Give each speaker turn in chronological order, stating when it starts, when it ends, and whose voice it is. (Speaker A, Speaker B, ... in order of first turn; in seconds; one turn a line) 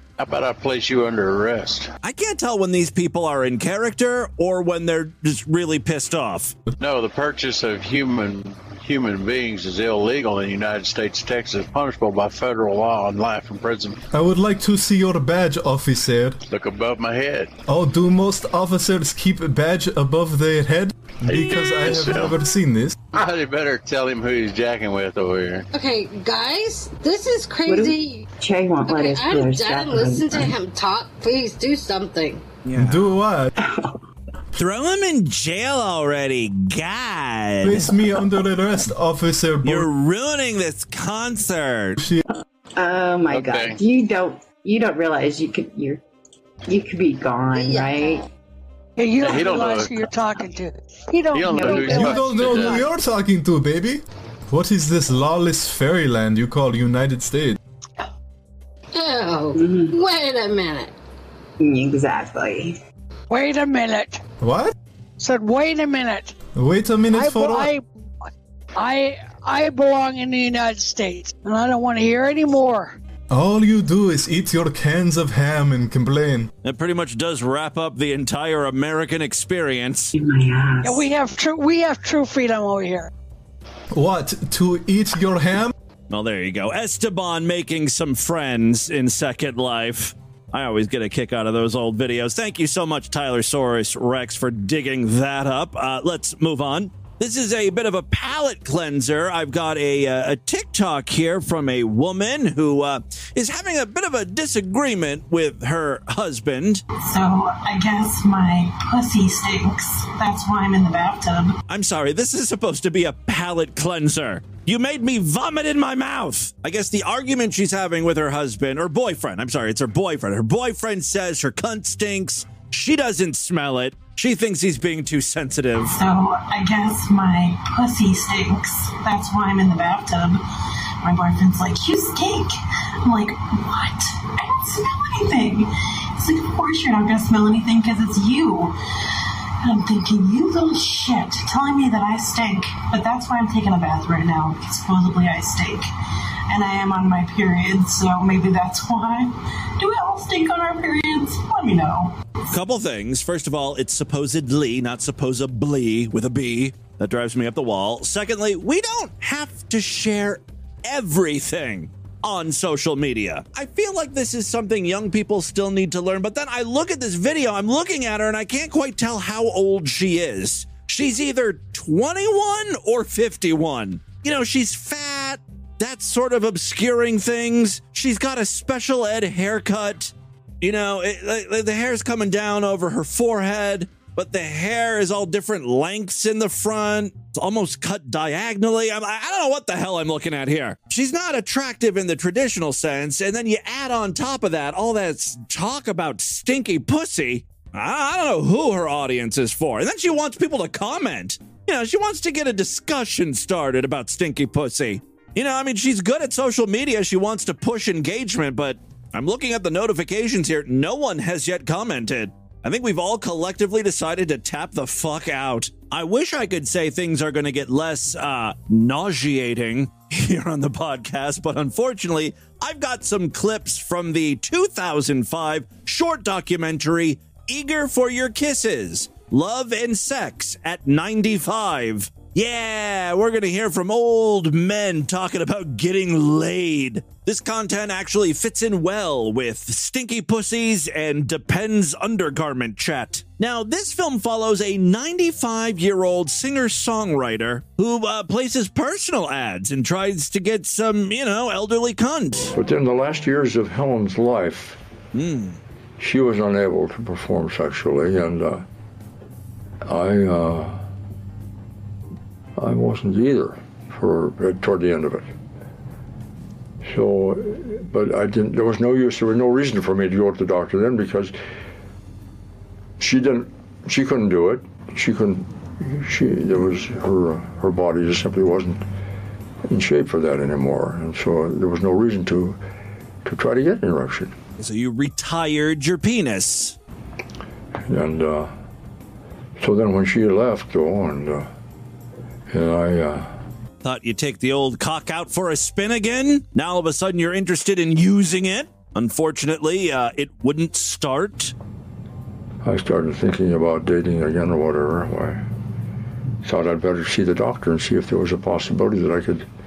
Speaker A: 0.2-1.9
Speaker B: 2.0-6.5
Speaker A: 6.8-14.0
Speaker C: 14.1-16.4
Speaker A: 16.5-17.5
Speaker C: 17.7-23.0
Speaker A: 21.2-22.4
Speaker A: 23.1-25.7
Speaker D: 25.7-28.3
Speaker E: 27.7-30.6
Speaker D: 28.8-32.4
Speaker B: 32.7-33.0
Speaker C: 32.8-33.5
Speaker B: 34.6-37.9
Speaker C: 37.6-39.9
Speaker B: 39.6-42.0
Speaker C: 42.0-42.2
Speaker E: 42.8-46.0
Speaker A: 43.3-43.8
Speaker E: 46.7-48.2
Speaker D: 47.5-48.2
Speaker F: 49.0-52.7
Speaker A: 49.2-50.1
Speaker A: 51.3-52.8
Speaker E: 51.5-52.1
Speaker C: 52.0-57.6
Speaker D: 58.9-60.9
Speaker E: 59.5-60.0
Speaker E: 61.6-62.8
Speaker F: 63.3-64.2
Speaker C: 64.4-64.7
Speaker F: 65.2-66.3
Speaker C: 66.5-67.7
Speaker F: 67.1-67.8
Speaker F: 68.8-73.0
Speaker C: 73.3-76.5
Speaker B: 76.6-80.1
Speaker E: 80.1-81.0
Speaker F: 80.8-83.1
Speaker C: 83.9-85.7
Speaker B: 86.1-106.8
Speaker G: 107.0-111.5
Speaker B: 111.7-126.0
Speaker G: 125.9-130.4
Speaker G: 131.0-138.7
Speaker G: 139.6-145.9
Speaker G: 146.5-152.2
Speaker B: 152.5-252.5
Speaker H: 252.5-254.8
Speaker B: 255.1-255.6
Speaker H: 256.0-258.6
Speaker H: 259.9-260.8
Speaker H: 262.6-265.3
Speaker H: 266.8-271.4
Speaker H: 273.0-278.8
Speaker H: 279.7-282.6
Speaker H: 283.2-284.3
Speaker B: 284.6-286.8
Speaker H: 287.9-288.5
Speaker H: 289.6-291.5
Speaker H: 292.5-293.4
Speaker B: 293.8-301.5
Speaker H: 302.6-305.4
Speaker H: 306.4-309.5